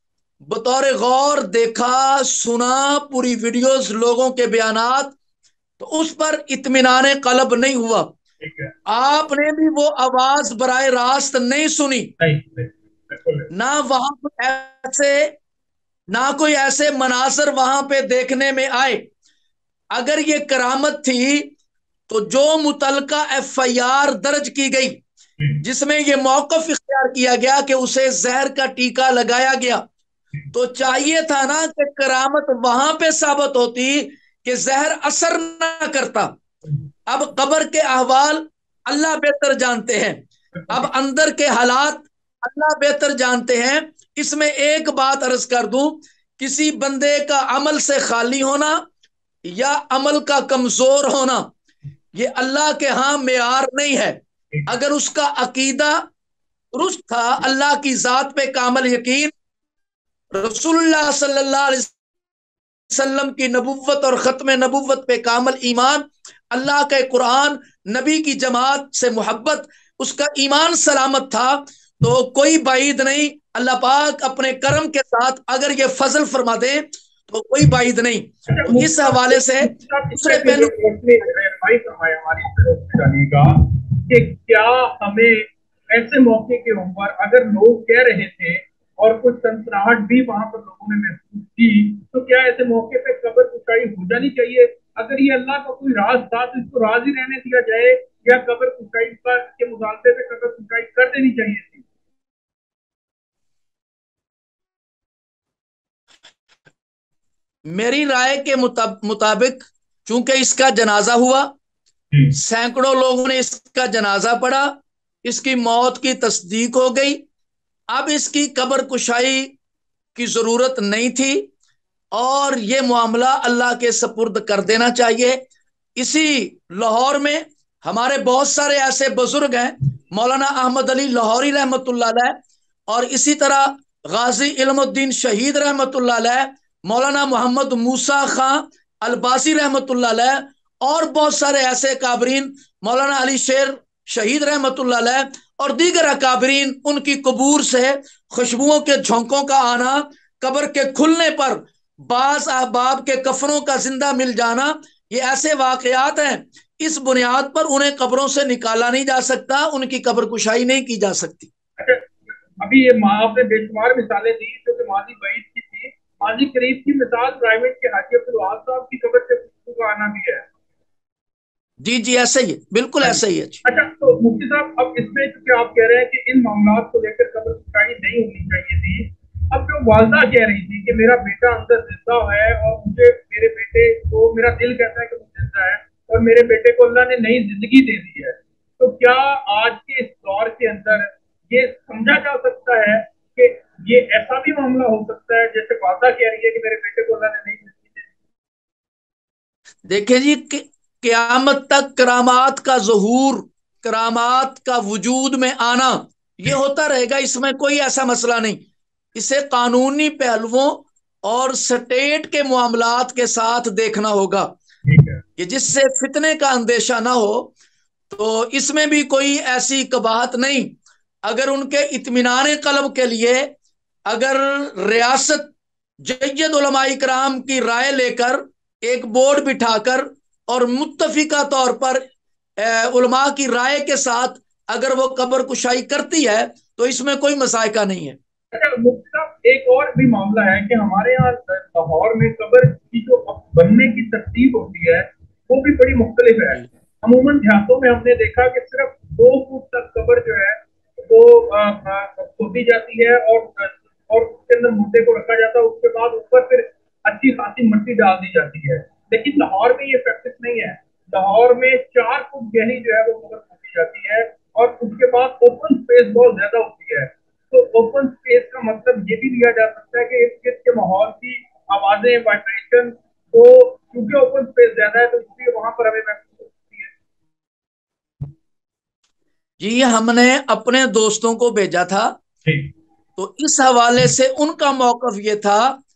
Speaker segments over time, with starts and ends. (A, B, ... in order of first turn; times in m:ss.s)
0:00.4-0:05.2 A
0:05.8-0:08.1 A
0:08.4-0:08.7 B
0:08.8-0:12.1 A
0:12.2-0:13.5 B
0:13.5-0:15.3 A
0:16.1-0:19.1 A
0:19.9-0:21.5 A
0:22.1-0:25.0 A
0:25.6-0:29.8 A
0:30.5-0:36.3 A
0:37.1-0:48.8 A
0:40.5-0:40.9 B
0:49.4-0:51.5 A
0:52.1-0:56.0 A
0:56.7-0:59.3 A
1:00.3-1:01.9 A
1:02.9-1:20.7 A
1:18.5-1:41.8 B
1:47.7-1:51.5 A
1:52.3-1:54.7 A
1:55.2-1:57.2 A
1:57.9-1:59.5 A
2:00.2-2:01.5 A
2:02.1-2:05.4 A
2:06.0-2:12.4 A
2:12.9-2:41.5 A
2:41.8-2:50.5 B
2:51.8-2:53.6 A
2:53.0-3:18.1 B
3:19.8-3:28.6 A
3:29.1-3:34.5 A
3:34.8-3:35.2 B
3:35.4-3:37.5 A
3:38.1-3:40.7 A
3:41.2-3:43.5 A
3:44.0-3:52.0 A
3:52.6-3:58.2 A
3:58.5-4:36.9 B
4:39.6-4:42.1 A
4:42.4-4:42.7 B
4:43.2-4:45.8 A